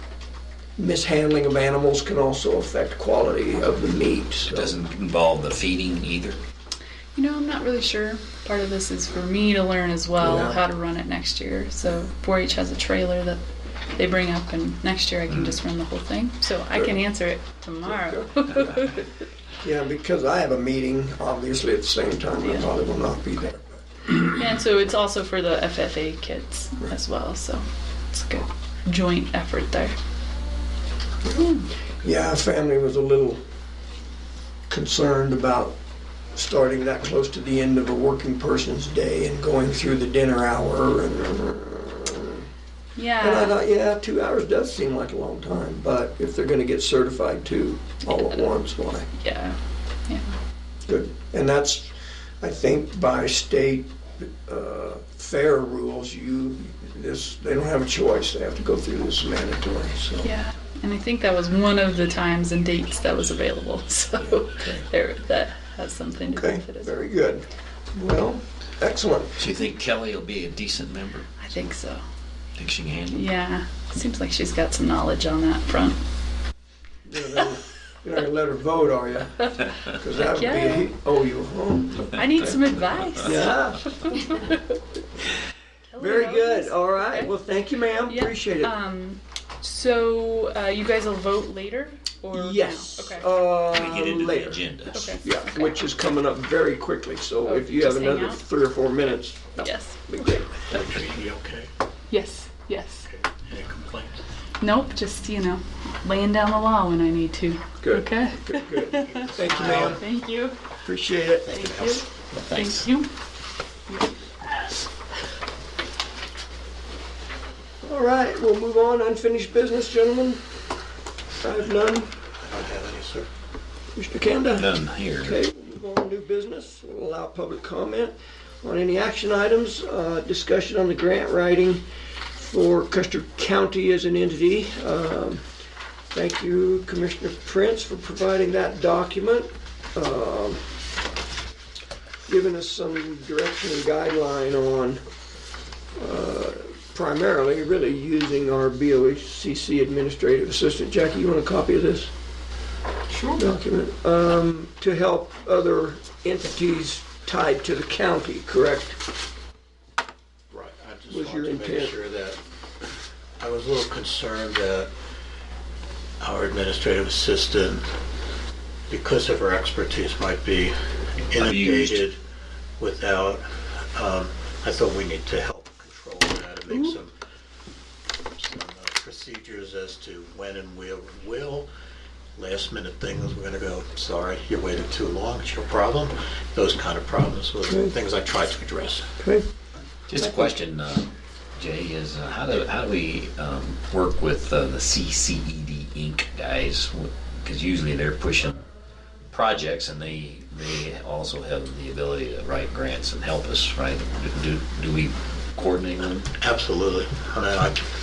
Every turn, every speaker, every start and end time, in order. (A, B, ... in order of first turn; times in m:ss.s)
0:00.8-0:04.8 A
0:04.4-0:06.4 B
0:07.2-0:13.4 C
0:10.2-0:10.6 A
0:14.0-0:19.1 C
0:15.3-0:15.6 B
0:17.8-0:18.3 A
0:19.6-0:23.6 A
0:24.2-0:30.0 C
0:32.0-0:33.4 A
0:34.7-0:35.8 A
0:36.3-0:42.4 A
0:43.0-0:43.5 C
0:43.2-0:49.1 A
0:49.2-0:50.3 C
0:50.9-1:00.3 A
1:00.2-1:07.1 C
1:04.2-1:04.9 A
1:06.3-1:09.4 A
1:09.4-1:11.3 B
1:11.4-1:12.0 C
1:12.6-1:13.3 B
1:13.1-1:16.0 C
1:17.0-1:22.6 A
1:20.2-1:20.9 C
1:22.1-1:24.8 C
1:23.2-1:24.0 A
1:25.9-1:27.3 C
1:26.0-1:28.7 A
1:28.1-1:33.2 C
1:32.3-1:34.6 A
1:33.7-1:35.1 B
1:34.9-1:35.8 C
1:35.2-1:40.5 A
1:37.4-1:38.4 C
1:39.6-1:40.0 C
1:40.7-1:41.7 D
1:42.1-1:43.1 C
1:43.1-1:44.2 D
1:44.6-1:50.6 C
1:47.8-1:50.0 A
1:49.0-1:50.0 D
1:50.8-1:51.6 A
1:51.5-1:53.1 C
1:52.5-1:52.8 B
1:57.8-2:00.4 A
2:01.4-2:02.1 A
2:02.4-2:03.3 D
2:04.0-2:11.8 A
2:04.6-2:05.4 B
2:12.4-2:15.4 A
2:16.1-2:20.6 A
2:22.3-2:25.0 A
2:26.0-2:32.1 A
2:33.4-2:39.0 A
2:40.5-2:42.4 D
2:41.1-2:42.0 A
2:43.4-2:44.9 D
2:46.2-2:47.9 D
2:48.9-2:50.7 D
2:51.3-2:52.2 D
2:51.4-2:52.0 B
2:52.8-2:57.1 D
2:58.4-3:01.7 D
3:02.4-3:09.1 D
3:09.2-3:09.5 A
3:10.1-3:18.6 B
3:19.3-3:26.3 B
3:26.4-3:27.9 D